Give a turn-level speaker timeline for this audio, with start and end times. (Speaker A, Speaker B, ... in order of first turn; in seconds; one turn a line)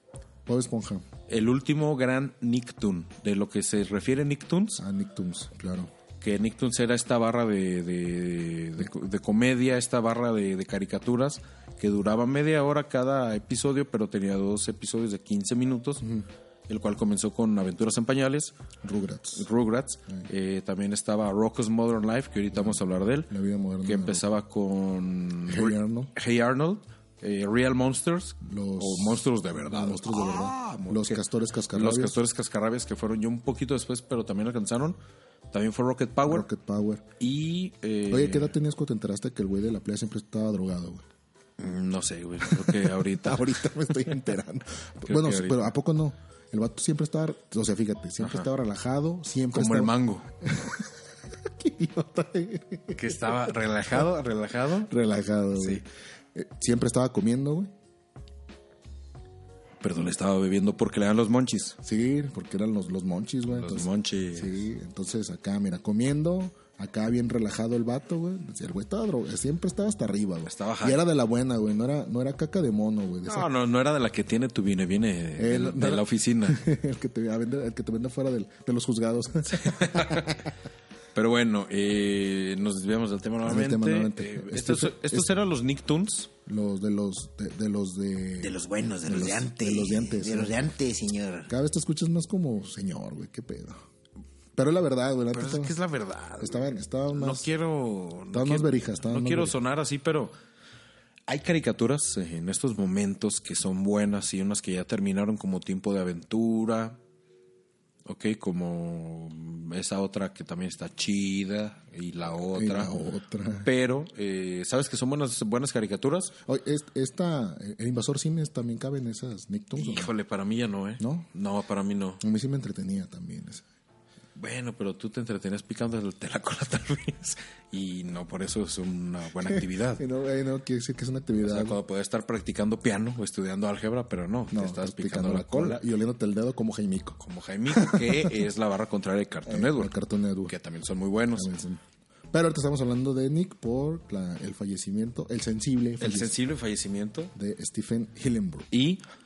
Speaker A: 0.5-1.1
Speaker B: 1.3-4.8
Speaker A: 4.8-5.9
Speaker B: 6.2-16.0
Speaker A: 16.0-16.3
Speaker B: 16.7-18.5
Speaker A: 18.8-19.5
Speaker B: 19.4-23.3
Speaker A: 22.6-24.2
Speaker B: 23.9-35.0
Speaker A: 25.5-26.1
Speaker A: 28.4-32.2
Speaker B: 35.5-36.5
Speaker A: 36.3-37.1
Speaker B: 37.2-38.6
Speaker A: 38.1-41.0
Speaker B: 41.6-43.5
Speaker A: 42.5-53.5
Speaker B: 45.0-45.7
Speaker B: 48.2-48.5
Speaker B: 49.5-50.3
Speaker B: 52.9-54.9
Speaker A: 54.9-57.7
Speaker B: 55.6-55.8
Speaker B: 59.8-61.8
Speaker A: 61.8-73.5
Speaker B: 63.5-64.6
Speaker B: 70.5-71.0
Speaker B: 73.3-76.6
Speaker A: 75.4-80.5
Speaker B: 79.5-80.5
Speaker B: 81.1-86.3
Speaker A: 83.4-85.3
Speaker A: 86.5-90.7
Speaker C: 88.4-91.5
Speaker A: 91.5-93.8
Speaker A: 94.5-95.8
Speaker B: 95.3-100.3
Speaker A: 96.4-97.5
Speaker A: 98.3-99.5
Speaker B: 101.3-107.0
Speaker B: 108.0-113.0
Speaker A: 112.5-113.7
Speaker B: 113.6-116.3
Speaker A: 116.5-120.1
Speaker B: 119.8-122.2
Speaker A: 121.0-121.3
Speaker A: 122.2-123.7
Speaker B: 124.4-130.0
Speaker A: 129.4-131.8
Speaker B: 131.4-135.8
Speaker A: 134.5-137.2
Speaker B: 137.2-139.9
Speaker A: 137.7-138.4
Speaker A: 139.5-140.6
Speaker B: 140.5-141.5
Speaker A: 141.3-141.8
Speaker A: 142.3-146.3
Speaker B: 146.0-147.3
Speaker A: 147.3-148.7
Speaker B: 148.7-149.0